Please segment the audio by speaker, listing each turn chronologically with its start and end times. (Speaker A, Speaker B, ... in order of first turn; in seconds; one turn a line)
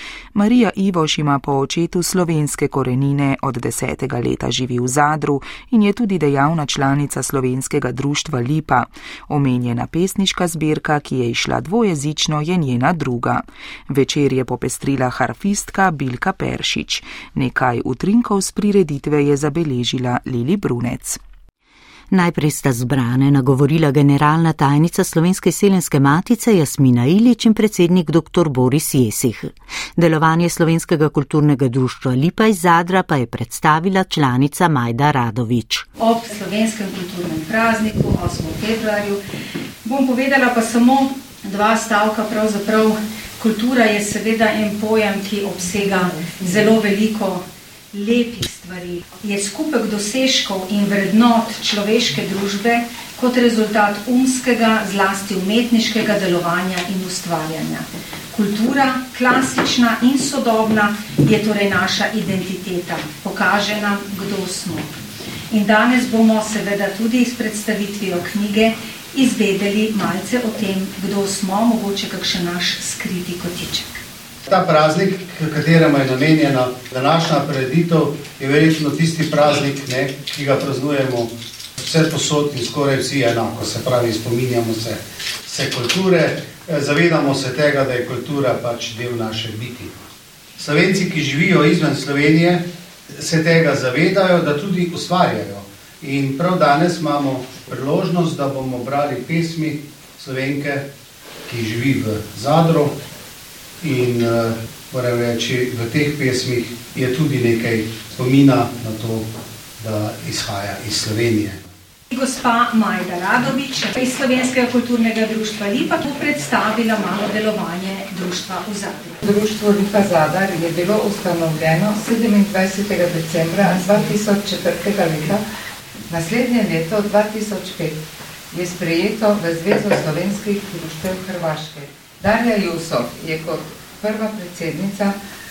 Speaker A: 0.3-21.2
Speaker B: 22.1-35.9
Speaker C: 36.0-39.2
Speaker C: 39.9-64.9
Speaker C: 65.5-74.0
Speaker D: 74.5-90.0
Speaker D: 90.6-92.7
Speaker D: 93.2-100.8
Speaker D: 101.5-103.0
Speaker D: 103.8-109.3
Speaker D: 109.8-111.6
Speaker C: 112.1-119.2
Speaker E: 119.2-125.5
Speaker E: 126.1-128.0
Speaker E: 128.5-135.2